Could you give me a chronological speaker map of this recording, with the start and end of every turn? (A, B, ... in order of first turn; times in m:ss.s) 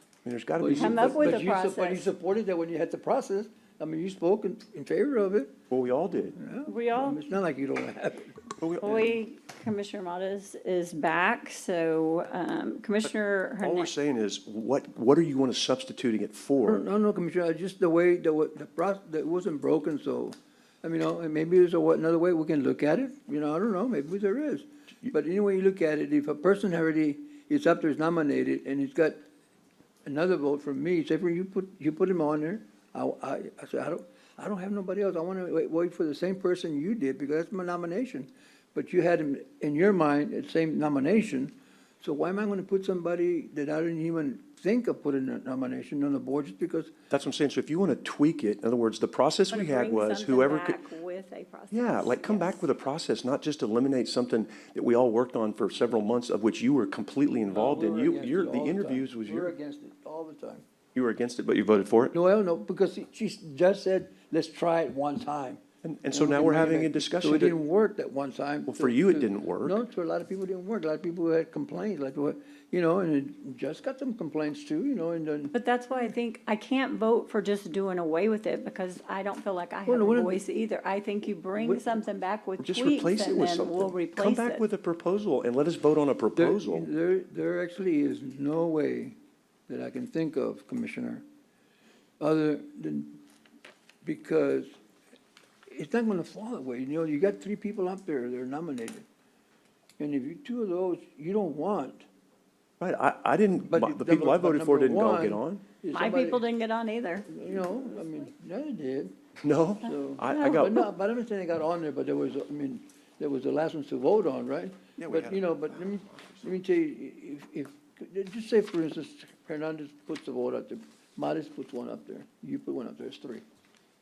0:00.2-0:01.4 A
0:00.6-0:05.6 B
0:00.7-0:02.1 C
0:05.7-0:06.4 A
0:06.4-0:08.5 B
0:06.7-0:07.2 C
0:08.6-0:09.2 A
0:08.8-0:13.9 C
0:13.6-0:16.9 A
0:16.6-0:29.2 B
0:30.0-0:46.9 B
0:47.1-0:50.8 A
0:49.5-0:52.6 C
0:51.7-0:59.5 A
0:57.5-1:00.6 B
1:01.0-1:02.2 A
1:02.1-1:15.6 B
1:05.8-1:07.6 A
1:08.7-1:09.8 A
1:15.5-1:24.6 C
1:19.9-1:20.4 B
1:21.6-1:21.9 B
1:22.6-1:26.9 A
1:26.4-1:29.2 B
1:29.7-1:31.2 B
1:32.2-1:33.2 B
1:34.0-1:34.8 B
1:35.7-1:39.0 B
1:40.0-1:42.1 B
1:42.8-1:45.6 A
1:43.7-1:46.4 B
1:45.9-1:47.4 C
1:47.3-1:49.2 B
1:49.4-1:50.9 A
1:49.8-2:03.4 B
1:55.0-1:56.4 A